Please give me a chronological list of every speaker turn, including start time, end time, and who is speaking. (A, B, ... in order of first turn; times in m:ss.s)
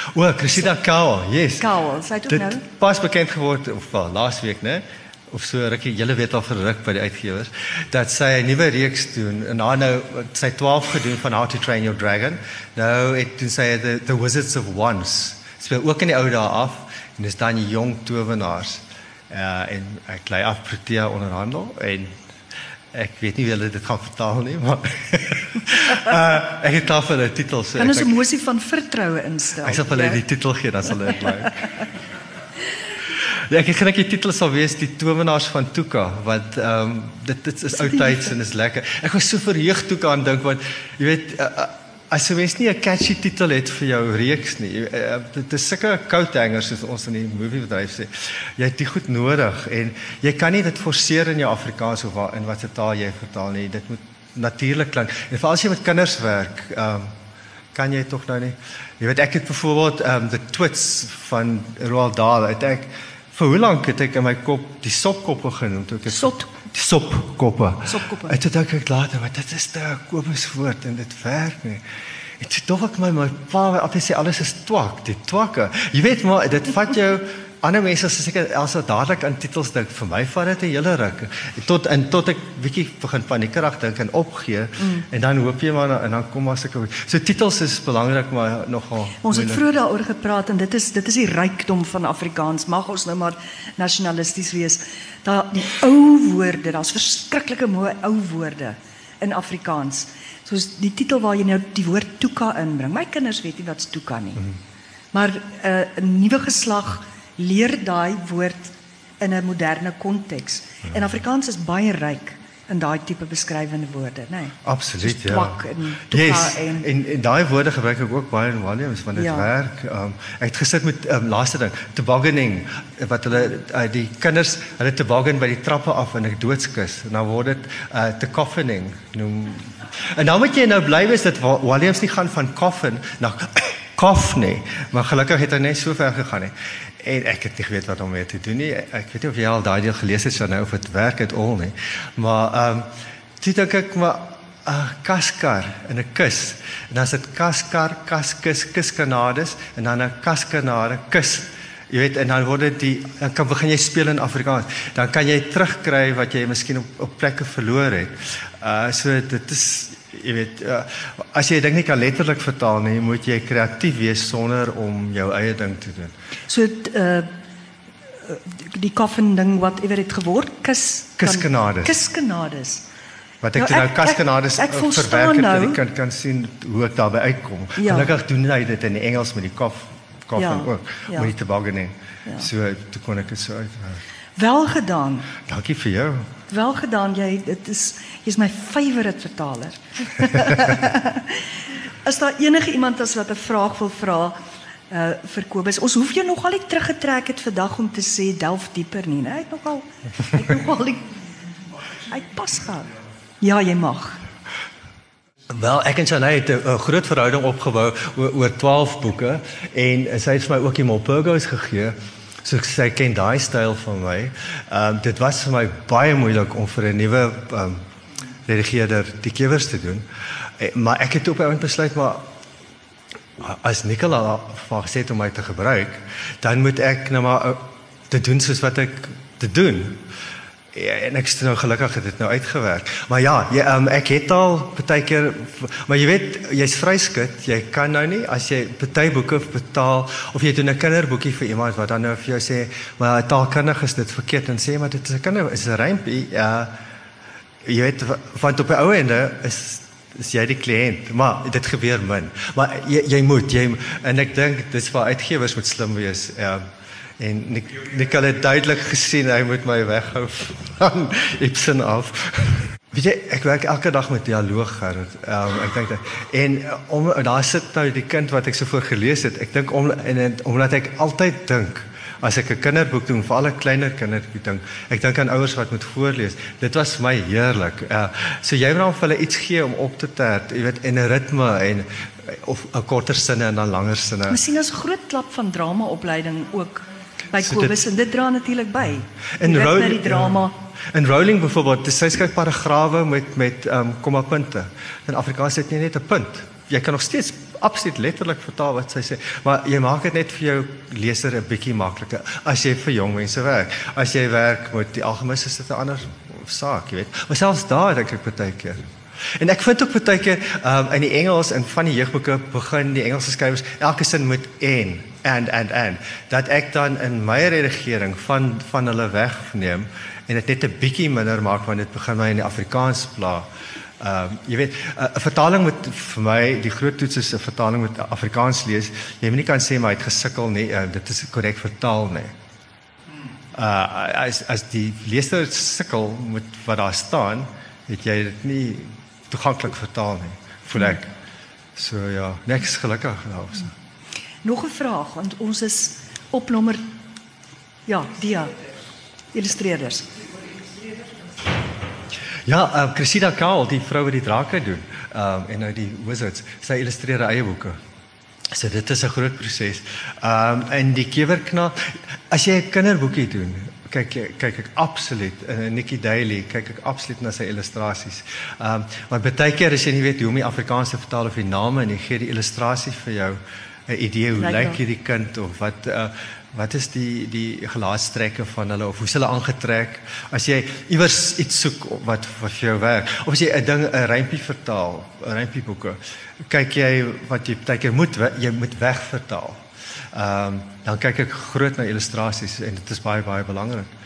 0:00.1-0:01.7 A
0:01.6-0:02.6 B
0:02.3-0:22.1 A
0:22.9-0:28.1 A
0:27.8-0:30.2 B
0:29.6-0:31.7 A
0:33.2-0:57.1 A
0:37.7-0:38.3 B
0:57.7-1:11.8 A
1:06.1-1:06.5 B
1:07.9-1:08.4 B
1:12.4-1:29.6 A
1:24.8-1:25.0 B
1:29.2-1:44.4 B
1:45.1-1:56.9 B
1:54.6-2:22.9 A
1:59.2-1:59.5 B
2:23.4-2:46.1 A
2:46.5-2:47.3 B
2:48.2-2:52.8 B
2:51.2-2:52.0 A
2:53.4-3:04.0 A
2:53.6-2:55.8 B
2:57.8-2:58.1 B
3:00.4-3:01.3 B
3:04.4-3:05.3 B
3:05.4-3:06.3 A
3:06.5-3:11.5 B
3:12.0-3:14.4 B
3:14.9-3:21.0 B
3:22.1-3:22.9 B
3:23.4-3:24.2 B
3:25.5-3:37.8 A
3:38.5-3:40.1 A
3:40.6-3:42.2 A
3:43.4-3:50.0 A
3:50.7-4:06.7 A
4:07.6-4:16.6 A
4:17.2-4:44.4 A
4:44.3-4:50.5 B
4:47.4-4:47.8 A
4:49.4-5:08.8 A
5:09.4-5:23.5 A
5:24.0-5:32.4 A
5:33.5-5:41.1 A
5:41.8-5:43.7 A
5:44.4-5:46.8 B
5:47.9-5:48.5 B
5:49.3-5:50.1 B
5:52.5-5:57.8 A
5:58.5-6:29.6 A
6:14.4-6:14.8 B
6:30.1-6:33.9 A